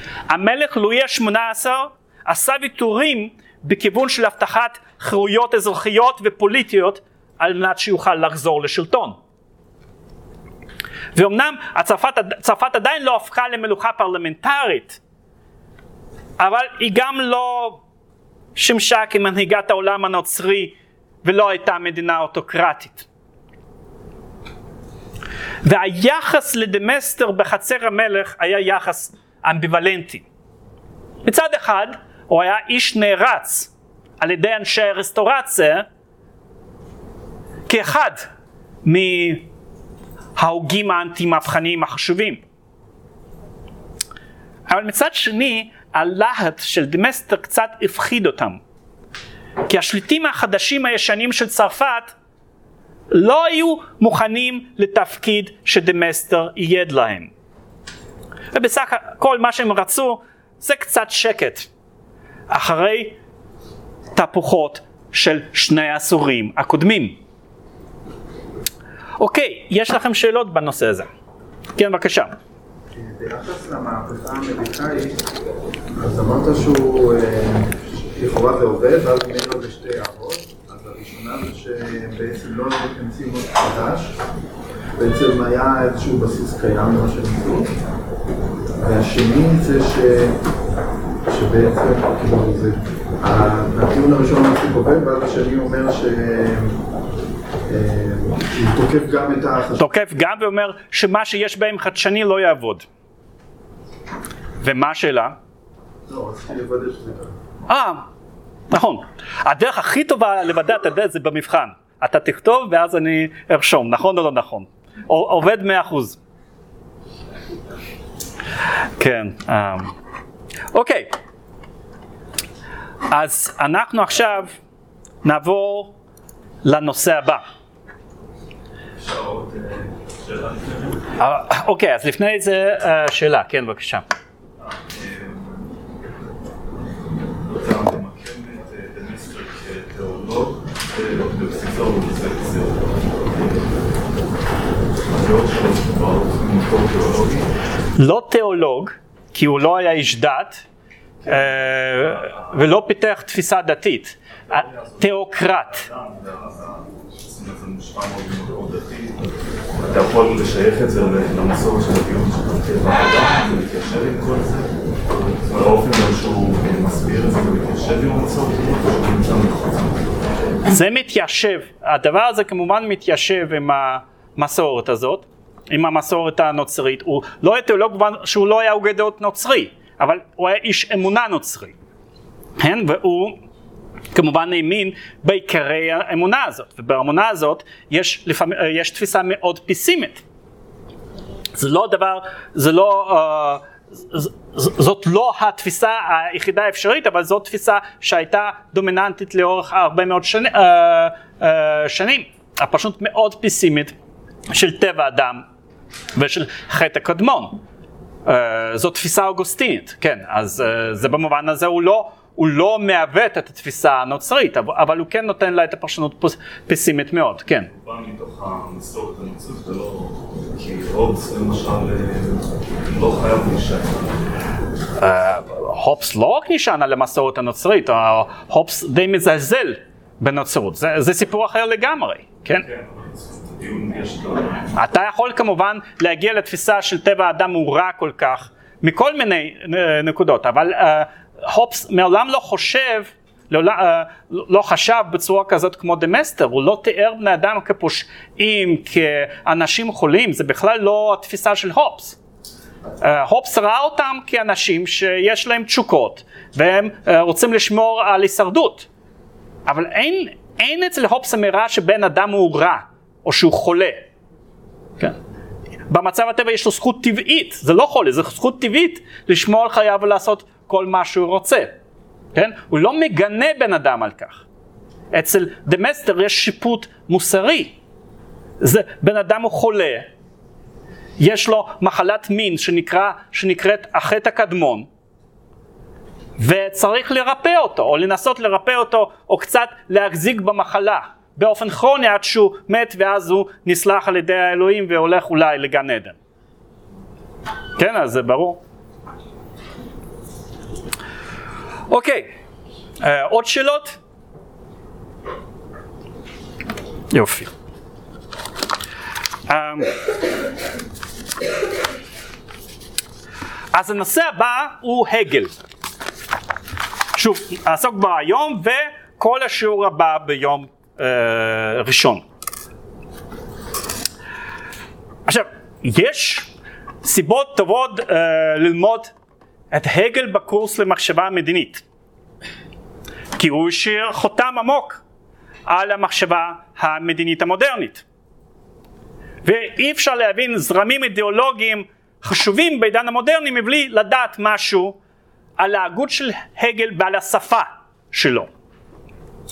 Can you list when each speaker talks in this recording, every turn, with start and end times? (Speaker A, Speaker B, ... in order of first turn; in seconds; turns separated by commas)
Speaker A: 0.3-9.2, Speaker A: 11.1-15.0, Speaker A: 16.4-17.8, Speaker A: 18.6-23.1, Speaker A: 25.6-30.2, Speaker A: 31.2-35.9, Speaker A: 37.7-38.3, Speaker A: 38.9-39.5, Speaker A: 40.4-42.4, Speaker A: 44.7-48.6, Speaker A: 49.7-52.1, Speaker A: 53.1-57.3, Speaker A: 58.5-61.7, Speaker A: 62.5-63.2, Speaker A: 64.2-67.2, Speaker A: 69.2-71.1, Speaker A: 71.8-72.3, Speaker B: 73.0-75.2, Speaker B: 76.0-84.2, Speaker B: 85.0-87.8, Speaker B: 88.8-90.4, Speaker B: 91.3-96.8, Speaker B: 97.7-99.8, Speaker A: 99.8-102.9, Speaker A: 104.6-105.4, Speaker B: 106.1-107.3, Speaker A: 107.7-108.1, Speaker A: 108.7-116.2, Speaker A: 119.0-119.9, Speaker A: 120.7-121.1, Speaker A: 123.1-124.6, Speaker A: 125.2-126.0, Speaker A: 126.6-127.4, Speaker C: 129.0-131.0, Speaker A: 131.2-134.1, Speaker C: 134.9-135.6, Speaker C: 137.4-143.5, Speaker C: 145.1-147.5, Speaker A: 148.0-150.7, Speaker A: 151.3-155.9, Speaker C: 155.9-170.1, Speaker A: 170.7-181.8, Speaker A: 182.6-183.4, Speaker A: 184.1-190.2, Speaker A: 191.6-203.9, Speaker A: 204.5-205.4, Speaker A: 206.2-207.6, Speaker A: 208.3-217.7, Speaker C: 217.7-224.2, Speaker A: 225.0-232.7, Speaker C: 232.9-234.7, Speaker A: 234.8-252.2, Speaker A: 253.0-258.9, Speaker A: 259.7-264.1, Speaker A: 265.9-271.8, Speaker A: 272.3-274.4, Speaker A: 275.1-277.8, Speaker A: 278.6-280.1, Speaker A: 281.2-284.9, Speaker A: 286.4-296.2, Speaker A: 297.8-298.6, Speaker A: 301.9-302.4, Speaker A: 303.0-304.0, Speaker A: 307.1-307.5, Speaker A: 309.5-309.9, Speaker A: 313.7-315.6, Speaker A: 317.1-322.2, Speaker A: 325.3-326.5, Speaker A: 327.0-329.1, Speaker A: 329.7-331.9, Speaker A: 333.4-335.0, Speaker A: 335.7-338.1, Speaker A: 339.4-345.0, Speaker A: 345.6-348.5